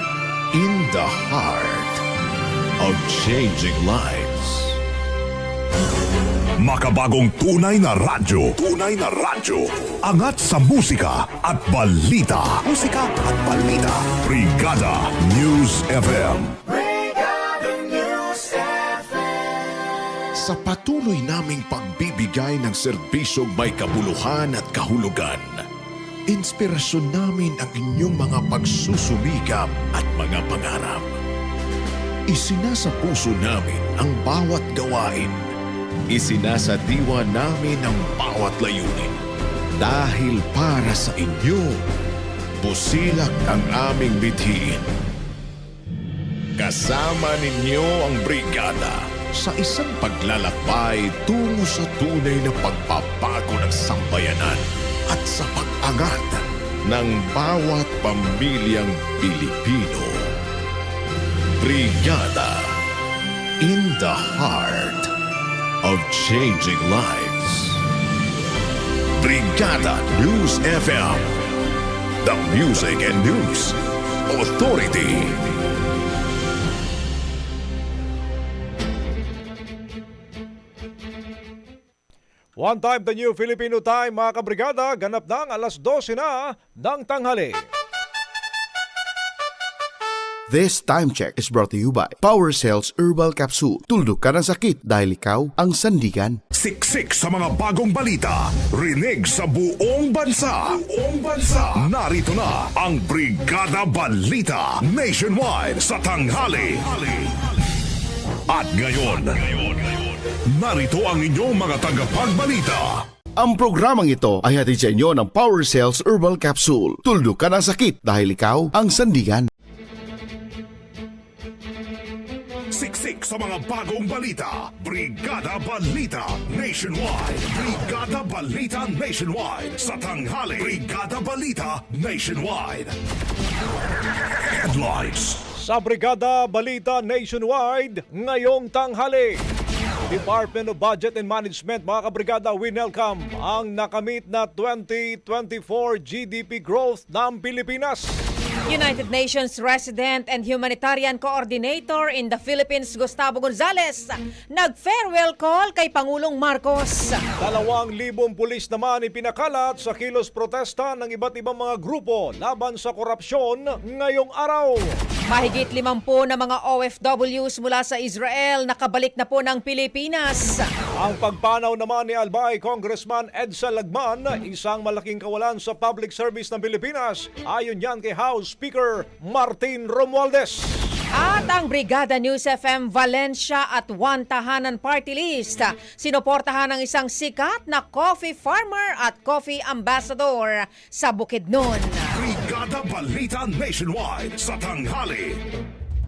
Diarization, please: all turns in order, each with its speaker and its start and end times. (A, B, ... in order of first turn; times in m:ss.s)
0:00.5-0:02.0 A
0:02.8-0:04.8 A
0:06.6-0:16.6 B
0:17.9-0:18.4 A
0:20.4-0:25.6 A
0:26.3-0:31.1 A
0:32.3-0:35.5 A
0:36.1-0:39.2 A
0:39.8-0:41.8 A
0:42.6-0:44.8 A
0:46.6-1:00.3 A
1:01.6-1:02.8 A
1:03.6-1:05.1 A
1:05.8-1:07.8 A
1:09.2-1:11.3 A
1:12.2-1:13.8 A
1:14.3-1:15.4 A
1:22.6-1:27.6 C
1:30.5-1:36.4 D
1:36.5-1:47.4 B
1:48.5-1:53.0 B
1:53.4-1:59.5 D
2:02.7-2:12.9 B
2:14.2-2:15.4 B
2:15.6-2:19.4 C
2:20.1-2:28.1 C
2:28.7-2:37.2 E
2:37.4-2:44.9 C
2:45.3-2:50.7 E
2:51.0-3:00.8 C
3:01.1-3:12.2 E
3:12.1-3:15.4 B